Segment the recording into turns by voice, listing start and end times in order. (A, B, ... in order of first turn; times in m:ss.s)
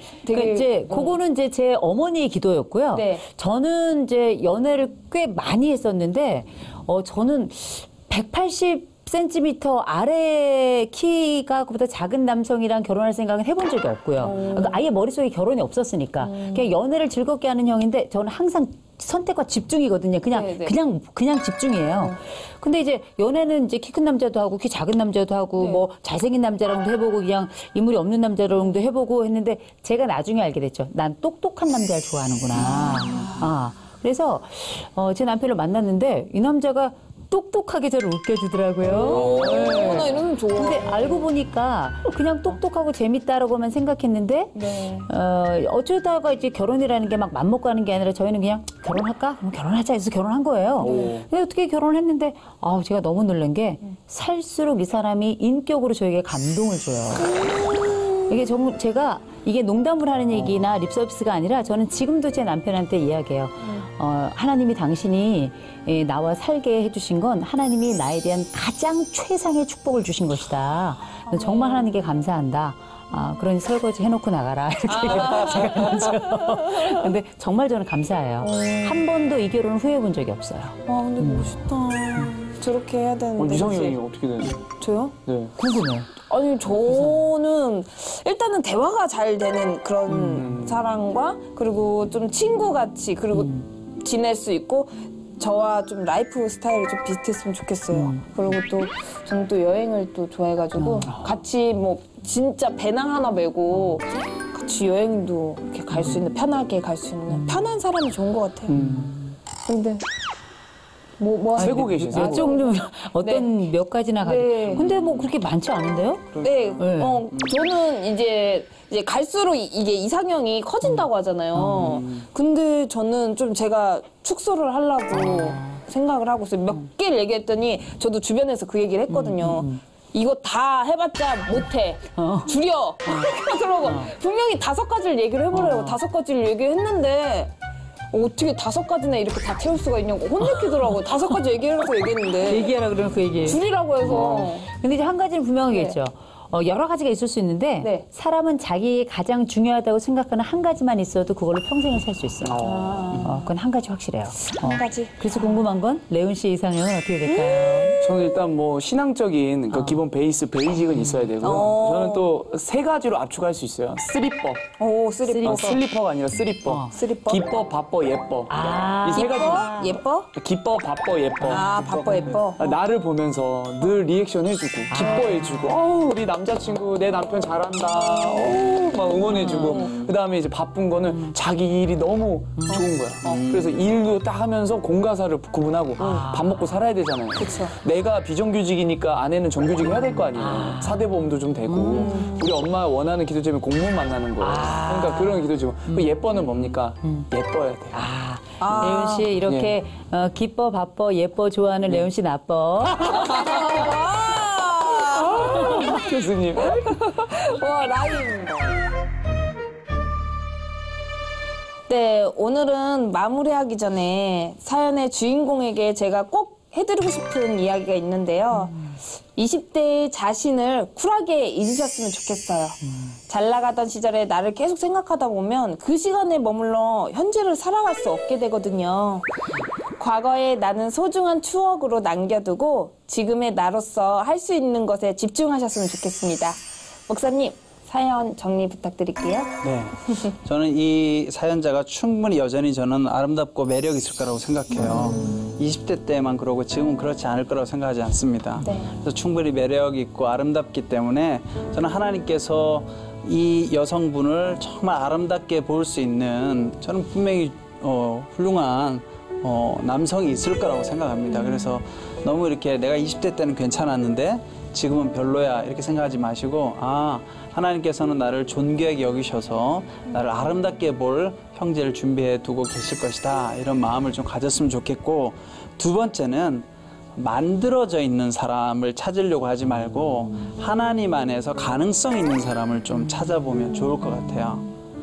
0:00.2-0:01.2 A
0:00.3-0:57.4 B
0:02.9-0:03.2 A
0:14.2-0:14.8 A
0:16.2-0:16.7 A
0:20.3-0:20.8 A
0:25.6-0:25.8 A
0:32.5-0:33.5 A
0:38.8-0:41.3 A
0:39.1-0:40.2 C
0:44.6-0:45.1 A
0:50.8-0:51.3 C
0:50.8-0:51.2 A
0:57.2-0:58.3 A
0:58.3-1:21.5 B
1:03.6-1:03.9 A
1:11.3-1:12.0 A
1:14.9-1:17.1 A
1:18.4-1:19.0 A
1:20.9-1:24.0 A
1:23.4-1:24.6 C
1:24.8-1:25.1 A
1:25.2-1:25.5 C
1:25.6-1:26.1 B
1:26.3-1:48.8 A
1:30.1-1:30.5 B
1:30.3-1:30.8 C
1:33.4-1:33.6 B
1:37.9-1:38.2 B
1:40.8-1:41.1 B
1:47.3-1:47.6 B
1:48.7-1:49.1 C
1:48.7-1:49.3 B
1:49.6-1:50.0 A
1:51.2-1:53.5 A
1:51.6-1:52.5 C
1:51.7-1:57.3 B
1:54.2-1:54.8 A
1:56.3-1:57.7 D
1:56.4-2:17.5 A
2:01.6-2:02.0 B
2:02.0-2:02.2 D
2:05.1-2:05.8 B
2:09.1-2:09.8 B
2:12.2-2:12.5 B
2:13.8-2:14.1 B
2:15.5-2:16.0 B
2:18.1-2:22.7 A
2:22.4-2:32.6 B
2:23.4-2:24.7 A
2:24.0-2:24.5 C
2:25.7-2:26.0 A
2:32.4-2:33.2 C
2:32.6-2:33.4 A
2:33.2-2:38.0 B
2:34.5-2:35.5 A
2:37.3-2:38.0 A
2:38.0-2:44.7 C
2:39.7-2:40.0 B
2:41.4-2:42.3 A
2:44.8-2:45.8 A
2:45.3-2:45.8 B
2:45.4-3:18.1 C
2:46.7-2:46.9 B
2:46.9-2:47.4 A
2:48.5-2:50.0 B
2:49.2-2:50.3 A
2:51.5-2:52.6 A
2:52.0-2:52.3 B
2:54.9-2:55.7 B
2:59.4-2:59.9 B
2:59.4-3:00.1 A
3:03.2-3:03.8 D
3:06.0-3:06.8 B
3:06.0-3:06.3 A
3:07.4-3:07.7 A
3:10.3-3:11.0 B
3:11.7-3:12.2 B
3:12.0-3:12.5 A
3:14.4-3:16.1 B
3:17.9-3:23.3 B
3:18.6-3:19.3 A
3:18.7-3:18.9 C
3:19.5-3:19.8 C
3:23.0-3:26.1 A
3:25.4-3:26.9 C
3:26.6-3:28.8 A
3:31.9-3:49.3 A
3:42.8-3:43.1 B
3:50.0-3:59.5 A
3:59.6-4:44.7 D
4:04.7-4:05.5 A
4:08.6-4:09.0 A